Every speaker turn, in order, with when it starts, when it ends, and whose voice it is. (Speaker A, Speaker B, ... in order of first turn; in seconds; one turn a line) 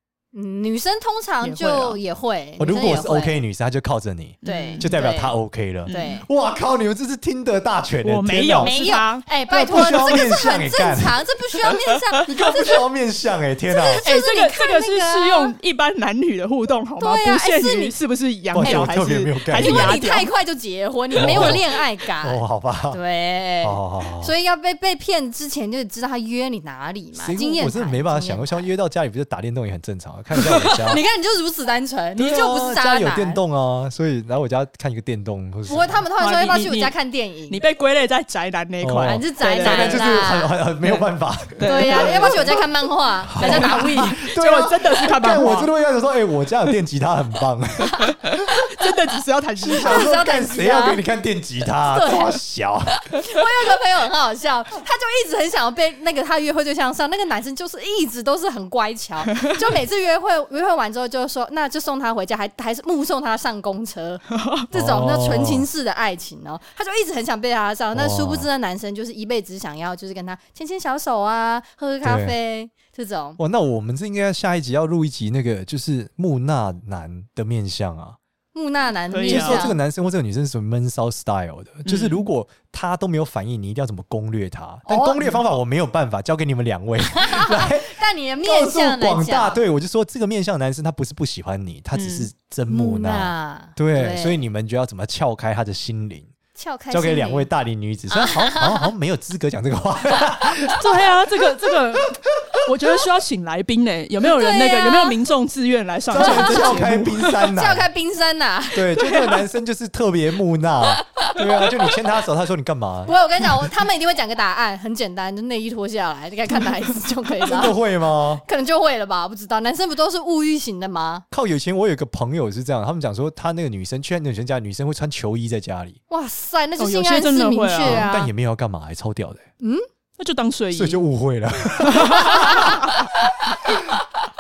Speaker A: 0.3-3.4
Speaker B: 1.4-2.0
Speaker C: 2.6-8.8
Speaker B: 4.4-4.9
Speaker A: 4.5-6.3
Speaker B: 5.9-6.2
Speaker B: 8.0-10.3
Speaker A: 8.6-12.8
Speaker C: 9.5-11.2
Speaker B: 11.7-12.3
Speaker C: 12.3-14.0
Speaker A: 13.7-15.6
Speaker B: 14.0-20.3
Speaker A: 17.0-17.9
Speaker C: 18.5-20.0
Speaker A: 18.6-28.6
Speaker B: 21.1-21.6
Speaker C: 21.2-21.6
Speaker C: 22.2-23.0
Speaker C: 23.6-24.3
Speaker C: 27.2-31.0
Speaker A: 30.9-33.4
Speaker C: 32.2-36.0
Speaker A: 35.7-37.6
Speaker B: 36.2-36.9
Speaker B: 37.5-40.3
Speaker C: 38.8-42.6
Speaker A: 39.0-40.5
Speaker B: 40.8-42.7
Speaker A: 41.6-44.2
Speaker C: 43.3-48.4
Speaker B: 43.4-45.7
Speaker B: 48.0-50.0
Speaker C: 49.7-52.9
Speaker A: 49.7-51.0
Speaker A: 51.8-52.4
Speaker A: 53.1-73.4
Speaker B: 64.3-64.7
Speaker C: 64.7-65.7
Speaker C: 67.9-68.5
Speaker C: 72.0-72.3
Speaker C: 73.4-78.2
Speaker A: 78.5-79.8
Speaker B: 79.1-79.7
Speaker C: 79.3-96.3
Speaker B: 81.8-82.2
Speaker A: 84.9-85.3
Speaker A: 87.1-89.6
Speaker B: 91.9-92.3
Speaker A: 92.7-94.4
Speaker A: 96.6-97.5
Speaker C: 96.9-101.7
Speaker A: 98.1-98.9
Speaker B: 100.8-107.4
Speaker A: 104.2-105.2
Speaker C: 106.1-107.9
Speaker A: 106.1-109.4
Speaker C: 108.7-113.7
Speaker A: 110.9-111.7
Speaker A: 113.1-117.8
Speaker C: 117.4-118.4
Speaker A: 118.4-121.2
Speaker C: 121.3-126.0
Speaker A: 126.1-128.3
Speaker B: 126.8-128.1
Speaker C: 127.8-129.4
Speaker A: 129.6-129.9
Speaker B: 130.2-131.0
Speaker C: 130.7-133.1
Speaker B: 131.8-132.9
Speaker A: 132.2-132.9
Speaker C: 133.7-134.0